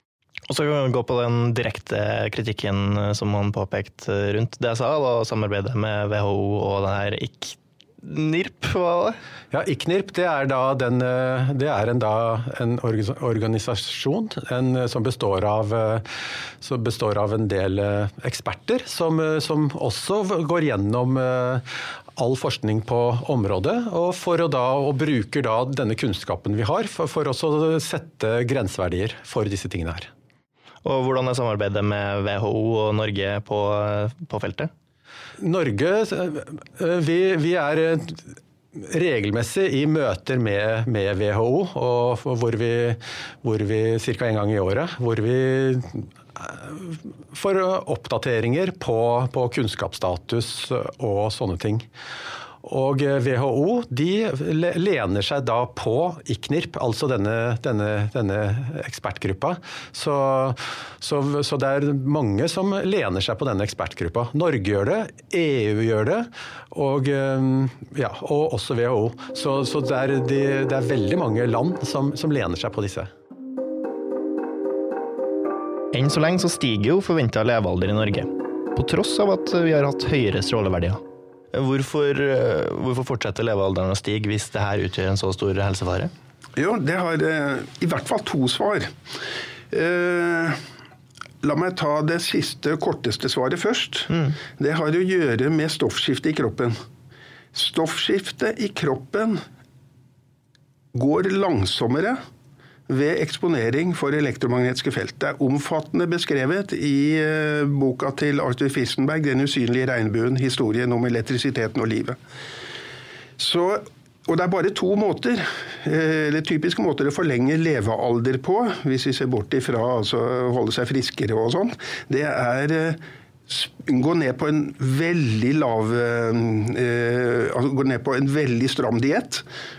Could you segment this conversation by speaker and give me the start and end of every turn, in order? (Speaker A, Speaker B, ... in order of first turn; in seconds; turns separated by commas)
Speaker A: 0.5-9.1, Speaker B: 9.5-16.1, Speaker B: 16.6-21.6, Speaker B: 22.2-30.1, Speaker A: 30.8-34.7, Speaker B: 35.4-51.9, Speaker B: 52.6-73.1, Speaker A: 75.9-81.0, Speaker A: 81.5-86.1, Speaker C: 86.5-88.9, Speaker C: 89.7-90.6, Speaker C: 91.4-96.7, Speaker C: 97.5-99.4, Speaker C: 100.9-102.2, Speaker C: 102.9-112.2, Speaker C: 113.4-129.4